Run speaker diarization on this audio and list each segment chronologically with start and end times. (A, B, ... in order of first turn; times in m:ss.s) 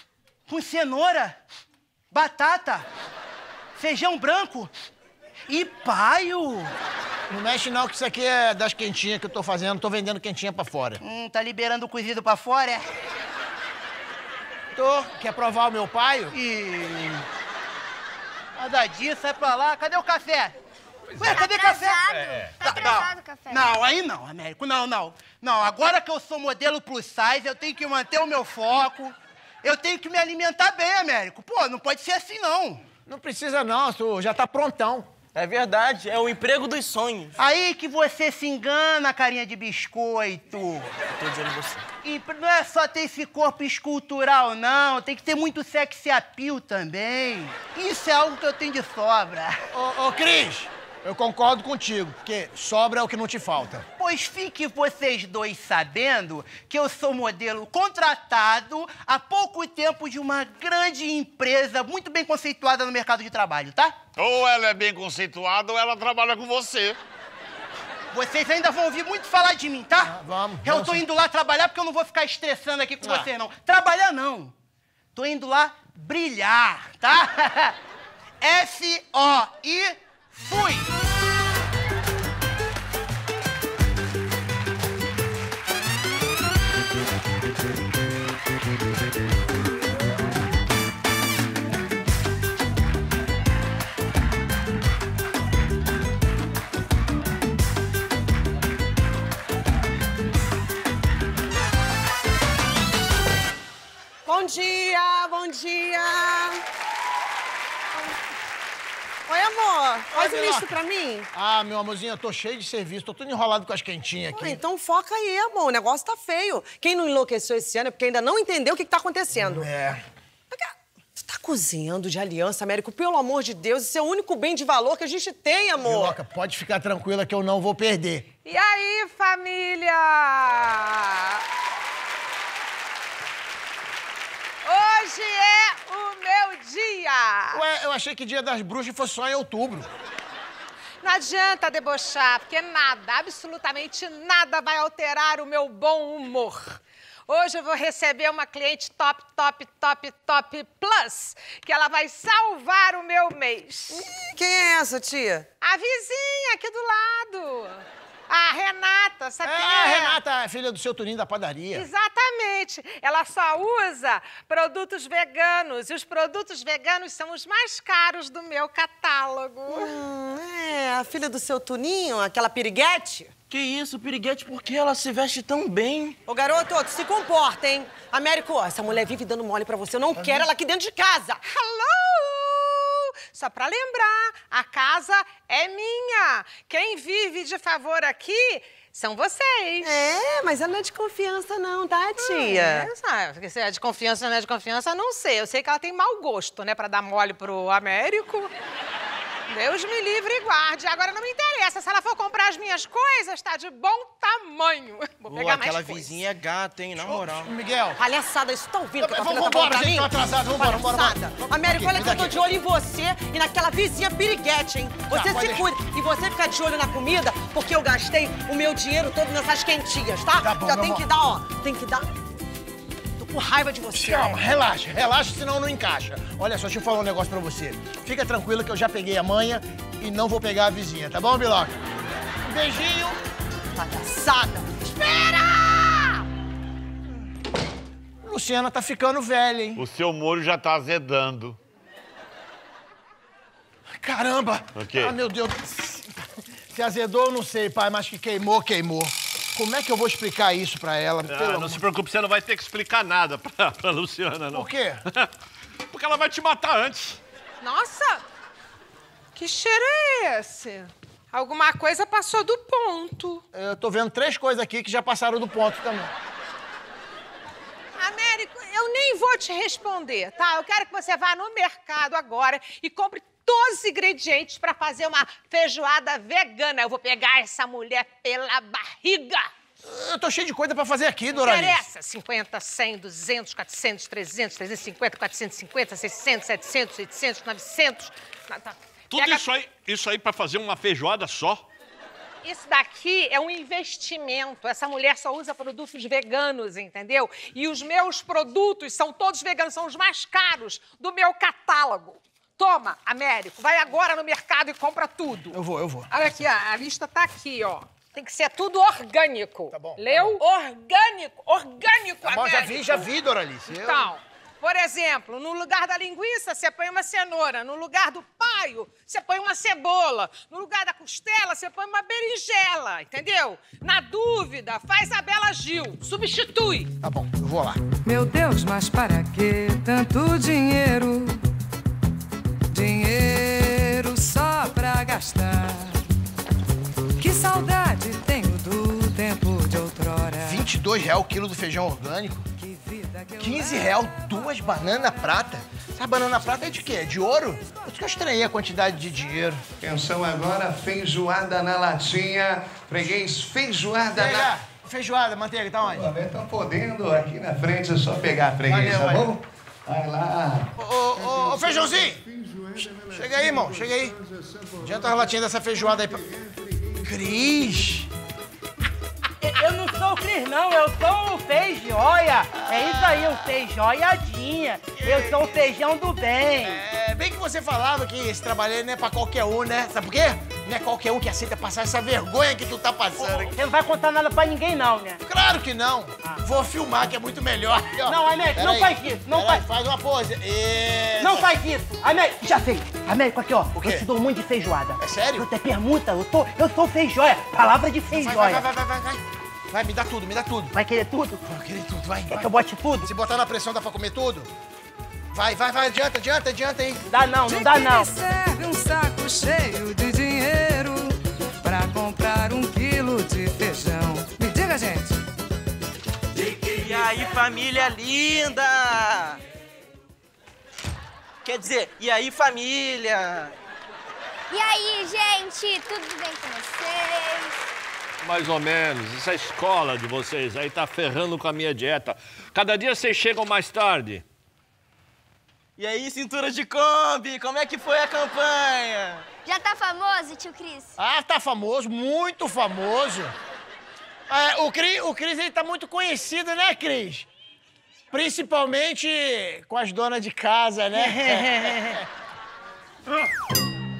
0:00.5-0:01.4 A
0:02.1-0:02.9 A
0:03.8-0:04.7 A
0:05.5-0:06.7 A
0:07.3-0:11.0 B
0:11.0-0:12.8 A
0:14.8-0:16.4 B
0:16.3-0:17.2 A
0:18.6-0:20.5 A
0:21.2-0:32.8 A
0:21.2-0:23.7 C
0:33.1-0:35.1 B
0:35.4-0:37.3 D
0:37.4-0:40.9 A
0:41.2-0:41.8 D
0:42.0-0:49.6 A
0:49.7-0:53.9 B
0:54.0-1:03.9 A
1:04.2-1:07.0 E
1:08.1-1:14.5 A
1:10.0-1:11.0 B
1:13.0-1:13.3 B
1:15.2-1:17.8 A
1:18.4-1:20.9 A
1:44.3-1:46.6 F
1:49.3-1:51.3 F
1:50.1-1:50.8 B
1:51.3-1:54.6 B
1:54.3-1:59.7 F
1:59.4-2:00.0 B
2:00.5-2:06.2 F
2:05.8-2:08.3 B
2:08.4-2:11.4 G
2:14.6-2:17.6 G
2:17.5-2:19.9 B
2:21.0-2:34.0 G
2:33.9-2:35.4 F
2:35.6-2:40.2 G
2:39.4-2:41.9 B
2:41.7-2:50.0 G
2:49.7-2:53.3 F
2:53.5-2:56.2 D
2:56.3-3:01.4 F
3:01.5-3:10.0 G
3:09.8-3:12.9 F
3:12.2-3:18.5 G
3:19.5-3:26.2 G
3:25.5-3:27.4 D
3:27.0-3:28.0 B
3:28.0-3:42.1 F
3:29.0-3:32.4 B
3:35.1-3:35.7 B
3:40.4-3:41.1 B
3:43.2-3:44.4 F
3:43.9-3:51.8 B
3:52.4-3:53.2 B
3:53.8-3:54.9 F
3:58.2-3:59.8 B
3:59.8-4:01.6 E
4:04.0-4:11.8 B
4:04.8-4:05.2 E
4:11.3-4:15.3 H
4:14.5-4:15.0 B
4:15.9-4:17.2 H
4:17.6-4:18.2 G
4:19.4-4:23.4 G
4:23.5-4:26.1 B
4:28.0-4:39.4 G
4:39.8-4:41.9 B
4:41.3-4:49.5 G
4:49.1-4:51.6 H
4:52.4-5:05.6 G
5:05.5-5:06.2 B
5:06.1-5:13.1 G
5:09.7-5:10.4 B
5:12.2-5:14.1 B
5:13.7-5:26.9 G
5:27.0-5:27.8 B
5:28.1-5:31.4 I
5:32.7-5:36.0 I
5:37.2-5:40.6 I
5:40.4-5:42.5 B
5:42.6-5:43.9 I
5:43.4-5:49.6 B
5:49.8-5:54.5 J
5:54.1-5:56.1 B
5:55.9-6:00.7 J
5:58.7-5:59.4 B
6:00.8-6:02.2 B
6:01.4-6:03.7 J
6:03.1-6:04.2 B
6:04.8-6:06.3 B
6:07.0-6:08.1 B
6:09.4-6:16.8 A
6:12.7-6:13.5 B
6:15.0-6:15.5 B
6:16.6-6:23.6 B
6:23.2-6:25.2 A
6:25.3-6:31.5 B
6:28.1-6:29.7 A
6:31.2-6:38.6 A
6:33.8-6:34.1 B
6:35.0-6:35.5 B
6:38.1-6:40.7 B
6:40.7-6:41.4 A
6:41.5-6:42.5 B
6:42.3-6:43.1 A
6:43.0-6:44.5 B
6:45.3-6:47.0 B
6:47.1-6:48.1 A
6:47.5-6:55.2 I
6:56.4-6:59.4 D
7:01.4-7:03.5 D
7:04.5-7:07.6 C
7:08.2-7:14.2 H
7:15.8-7:19.2 D
7:19.5-7:20.9 C
7:21.0-7:23.3 B
7:24.3-7:27.3 B
7:28.1-7:32.0 B
7:31.0-7:32.0 A